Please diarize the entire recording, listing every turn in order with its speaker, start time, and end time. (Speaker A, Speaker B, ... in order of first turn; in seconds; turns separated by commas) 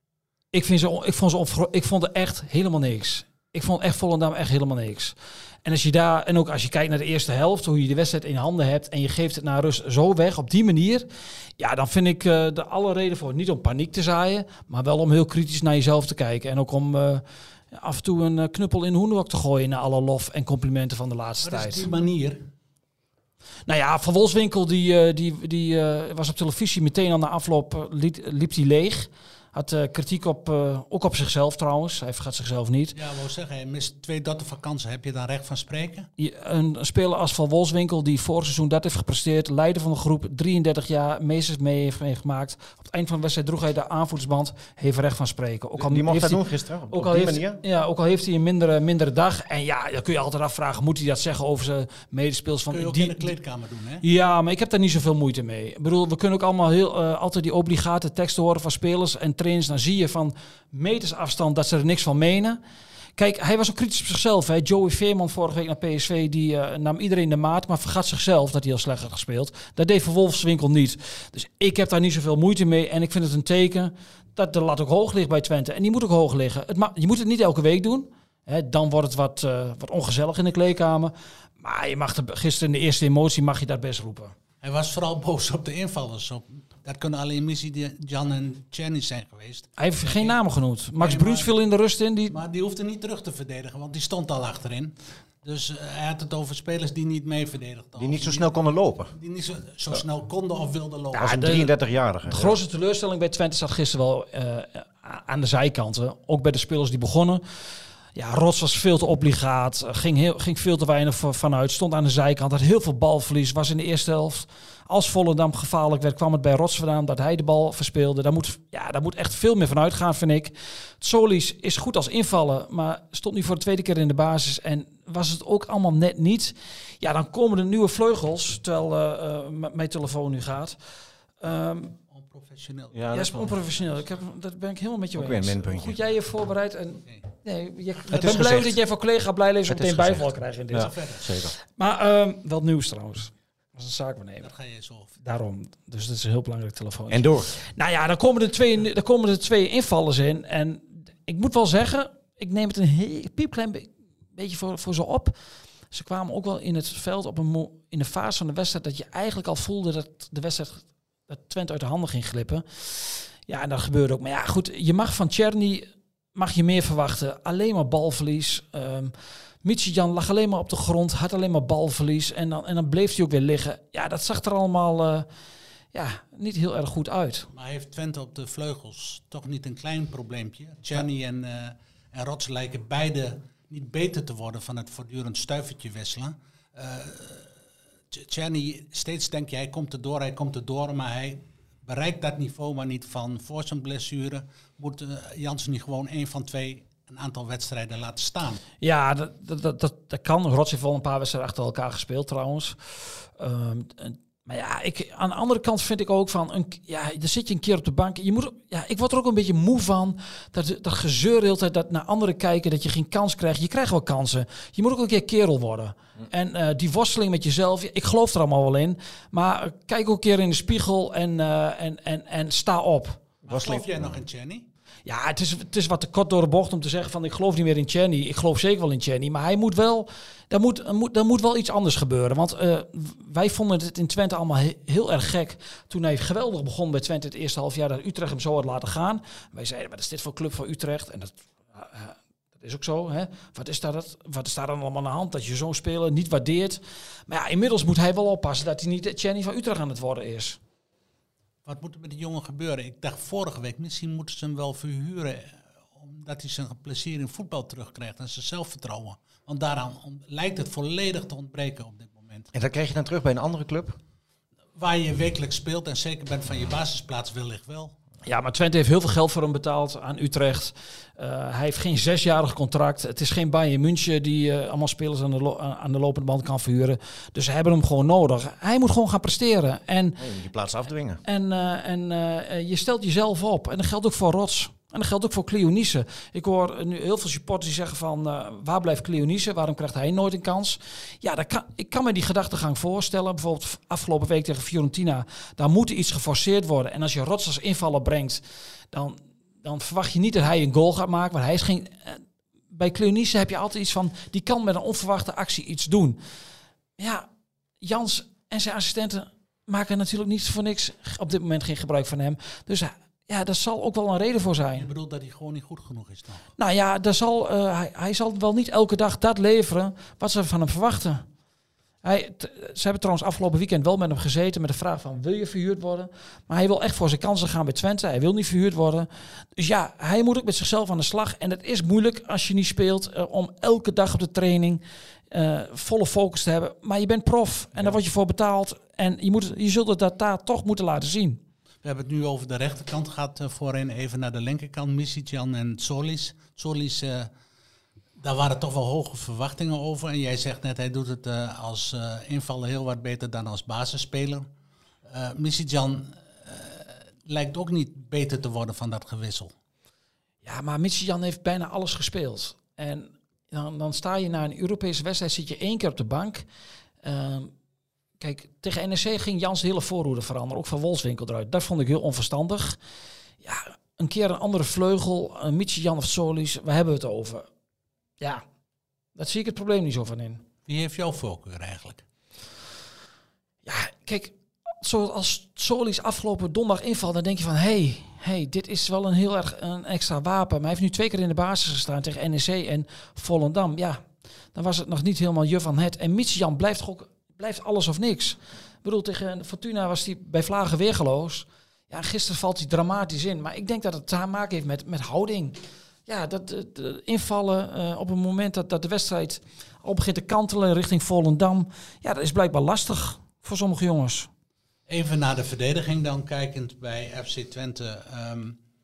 Speaker A: 0.5-11.1, Speaker A: 11.6-21.9, Speaker B: 21.4-22.5, Speaker A: 23.7-33.0, Speaker B: 33.0-36.1, Speaker A: 36.2-53.4, Speaker C: 45.8-47.6, Speaker B: 52.7-54.0, Speaker A: 54.0-62.6, Speaker A: 63.2-84.3, Speaker B: 84.6-90.4, Speaker A: 89.8-92.4, Speaker B: 91.0-91.5, Speaker B: 92.3-98.5, Speaker C: 98.0-99.1, Speaker B: 99.1-101.5, Speaker A: 101.2-101.7, Speaker C: 101.2-102.6, Speaker A: 102.3-107.4, Speaker A: 108.2-130.8, Speaker A: 131.4-132.0, Speaker B: 132.1-134.0, Speaker C: 132.9-133.5, Speaker A: 133.1-140.9, Speaker C: 135.2-136.0, Speaker B: 138.1-138.7, Speaker C: 138.1-138.8, Speaker C: 139.7-141.5, Speaker B: 140.7-141.3, Speaker A: 141.8-144.5, Speaker B: 144.4-145.1, Speaker A: 145.2-155.3, Speaker C: 147.1-147.5, Speaker A: 155.9-175.3, Speaker A: 175.9-177.5, Speaker B: 177.5-187.5, Speaker B: 188.1-198.6, Speaker A: 198.8-223.2, Speaker C: 223.5-223.9, Speaker B: 223.5-224.7, Speaker A: 225.1-250.6, Speaker B: 251.7-262.5, Speaker C: 262.5-264.0, Speaker B: 264.8-267.9, Speaker A: 268.2-280.2, Speaker C: 280.2-281.2, Speaker A: 281.2-306.2, Speaker A: 307.0-307.3, Speaker A: 307.8-314.9, Speaker B: 314.8-316.5, Speaker A: 316.6-321.2, Speaker A: 322.0-341.4, Speaker B: 341.8-347.3, Speaker B: 348.2-354.5, Speaker B: 355.1-359.5, Speaker A: 360.4-366.4, Speaker A: 367.0-367.5, Speaker A: 368.2-372.8, Speaker A: 373.4-377.5, Speaker A: 379.2-380.4, Speaker B: 380.7-382.0, Speaker A: 383.6-394.0, Speaker A: 394.6-414.3, Speaker B: 414.9-418.6